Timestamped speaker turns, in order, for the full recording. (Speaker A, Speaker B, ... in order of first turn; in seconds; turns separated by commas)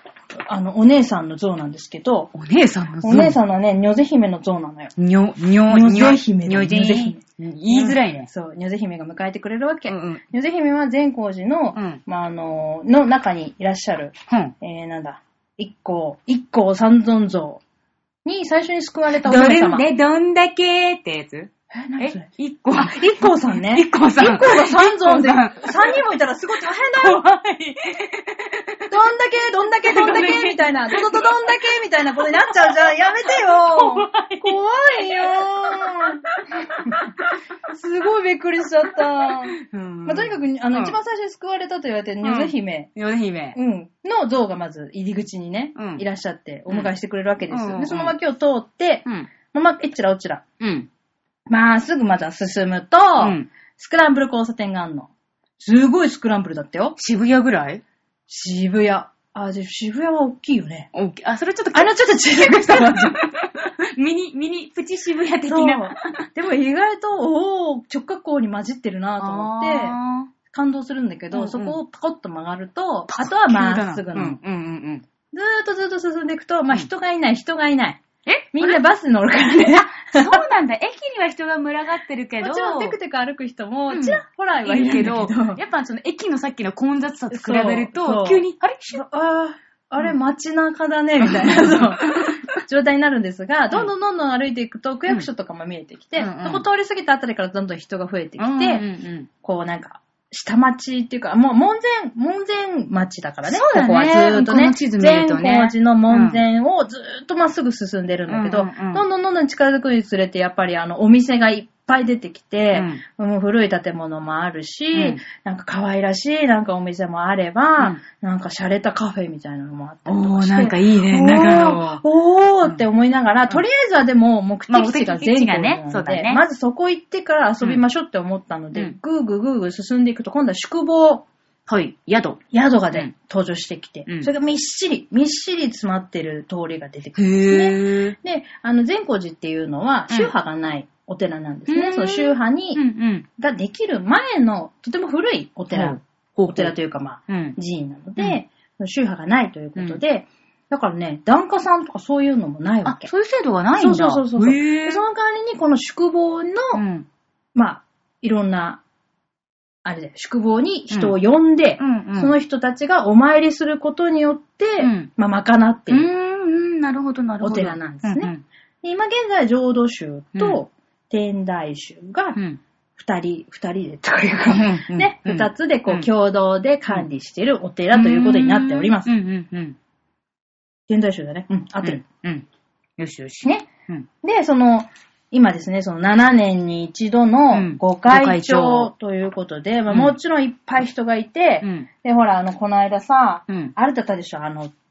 Speaker A: 0.3-2.3, Speaker B: 2.3-3.4, Speaker A: 3.0-4.9, Speaker B: 5.0-8.3, Speaker A: 5.7-17.6, Speaker B: 9.9-10.2, Speaker B: 11.7-12.0, Speaker A: 18.2-19.9, Speaker B: 19.2-26.0, Speaker A: 21.7-27.2, Speaker B: 26.9-28.9, Speaker A: 28.9-37.1, Speaker B: 29.9-31.5, Speaker B: 32.5-37.3, Speaker A: 37.7-42.9, Speaker B: 39.2-41.0, Speaker B: 42.2-43.6, Speaker A: 43.5-50.4, Speaker B: 45.8-46.0, Speaker B: 47.5-48.1, Speaker B: 50.6-50.9, Speaker A: 51.5-57.0, Speaker B: 53.2-53.5, Speaker B: 57.0-57.8, Speaker A: 58.3-60.9, Speaker B: 60.9-66.2, Speaker A: 61.7-63.1, Speaker A: 65.5-70.0, Speaker B: 69.2-70.3, Speaker A: 70.5-74.4, Speaker B: 71.3-71.8, Speaker B: 73.1-75.0, Speaker A: 75.3-78.0, Speaker B: 78.2-78.8, Speaker A: 78.5-80.4, Speaker B: 79.7-83.0, Speaker A: 82.4-85.6, Speaker B: 83.9-89.0, Speaker A: 87.3-98.8, Speaker B: 91.2-92.5, Speaker B: 96.2-96.6, Speaker B: 98.4-99.3, Speaker A: 99.4-131.2, Speaker B: 103.4-106.4, Speaker B: 108.3-109.0, Speaker B: 112.7-113.0, Speaker B: 114.9-115.2, Speaker B: 120.0-122.0, Speaker B: 124.7-126.4, Speaker B: 131.7-132.4, Speaker A: 132.5-142.8, Speaker B: 134.1-134.3, Speaker B: 137.1-138.2, Speaker B: 141.7-143.2, Speaker A: 143.4-146.0, Speaker B: 145.7-146.7, Speaker A: 146.5-153.1, Speaker B: 147.3-147.6, Speaker B: 152.8-155.0, Speaker A: 153.7-156.8, Speaker B: 156.7-157.1, Speaker A: 157.5-158.8, Speaker A: 159.8-166.1, Speaker B: 160.9-161.1, Speaker B: 161.8-162.3, Speaker B: 164.8-165.1, Speaker B: 165.9-168.4, Speaker A: 167.4-168.3, Speaker A: 168.8-172.4, Speaker B: 170.3-170.6, Speaker B: 172.3-172.6, Speaker A: 173.0-179.1, Speaker B: 174.5-176.1, Speaker B: 177.9-179.8, Speaker A: 180.9-182.0, Speaker B: 181.8-182.4, Speaker B: 183.0-184.1, Speaker A: 183.4-183.7, Speaker A: 184.2-194.7, Speaker B: 187.5-188.9, Speaker B: 189.9-190.2, Speaker B: 191.6-191.9, Speaker B: 193.5-193.7